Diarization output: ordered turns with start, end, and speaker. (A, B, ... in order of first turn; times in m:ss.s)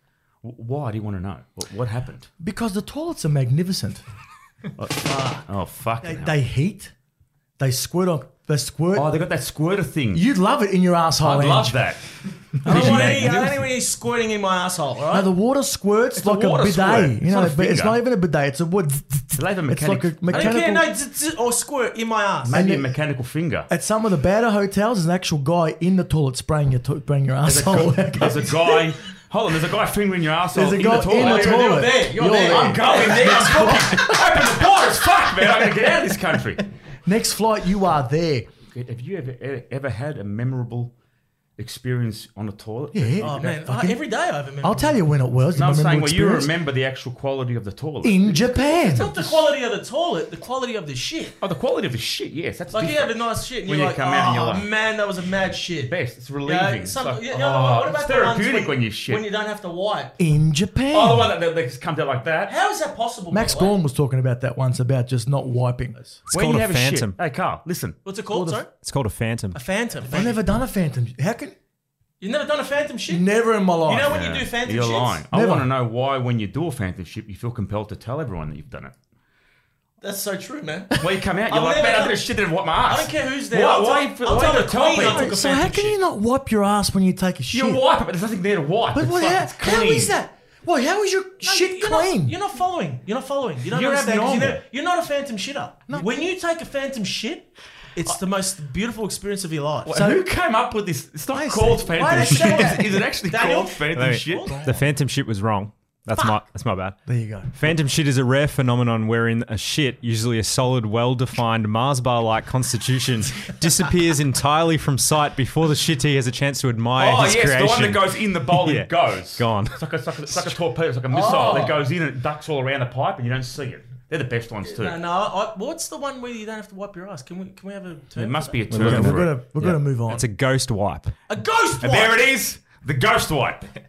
0:00.4-0:02.3 A
0:02.4-0:04.0 B
0:04.8-0:06.3 A
0:05.0-0:05.4 C
0:06.0-0:06.9 B
0:07.6-0:09.1 B
0:08.9-0:10.2 A
0:10.1-0:11.8 B
0:11.2-0:13.6 A
0:12.6-0:15.3 C
0:12.7-0:13.2 B
0:15.1-0:20.8 B
0:16.2-0:18.0 A
0:19.3-0:20.6 A
0:20.3-0:22.5 C
0:22.4-0:23.7 A
0:22.5-0:22.9 B
0:23.7-0:28.8 B
0:27.4-0:31.8 A
0:30.5-0:34.2 B
0:30.8-0:33.9 C
0:32.4-0:36.6 A
0:37.0-0:38.5 B
0:38.7-0:40.9 A
0:41.6-0:43.3 A
0:42.9-0:44.0 B
0:43.2-0:45.0 C
0:44.6-0:46.5 B
0:45.5-0:49.4 A
0:48.0-0:49.1 B
0:48.7-0:51.4 C
0:51.4-0:54.7 A
0:52.7-1:00.1 C
0:55.8-0:59.2 A
1:00.2-1:01.3 B
1:00.9-1:02.5 A
1:02.5-1:03.8 C
1:03.3-1:06.2 B
1:06.3-1:07.2 D
1:06.3-1:08.0 A
1:08.0-1:08.7 C
1:08.3-1:08.6 B
1:08.8-1:09.6 D
1:09.5-1:10.5 C
1:10.1-1:11.5 B
1:12.2-1:13.3 C
1:13.1-1:14.1 B
1:13.8-1:15.2 C
1:14.0-1:18.9 A
1:15.3-1:15.7 B
1:20.0-1:20.9 C
1:21.0-1:25.3 A
1:21.5-1:26.0 C
1:25.0-1:27.8 B
1:27.5-1:30.1 A
1:28.9-1:32.4 B
1:31.4-1:40.0 C
1:33.6-1:34.6 A
1:39.8-1:44.5 A
1:39.9-1:40.2 B
1:41.3-1:42.9 B
1:42.0-1:44.8 C
1:43.9-1:59.9 D
1:47.0-1:47.5 B
1:57.0-2:05.0 A
2:01.1-2:01.8 C
2:01.2-2:01.7 B
2:04.6-2:08.6 C
2:08.2-2:09.3 A
2:08.7-2:11.1 D
2:08.7-2:10.2 B
2:11.3-2:12.2 C
2:11.8-2:13.7 A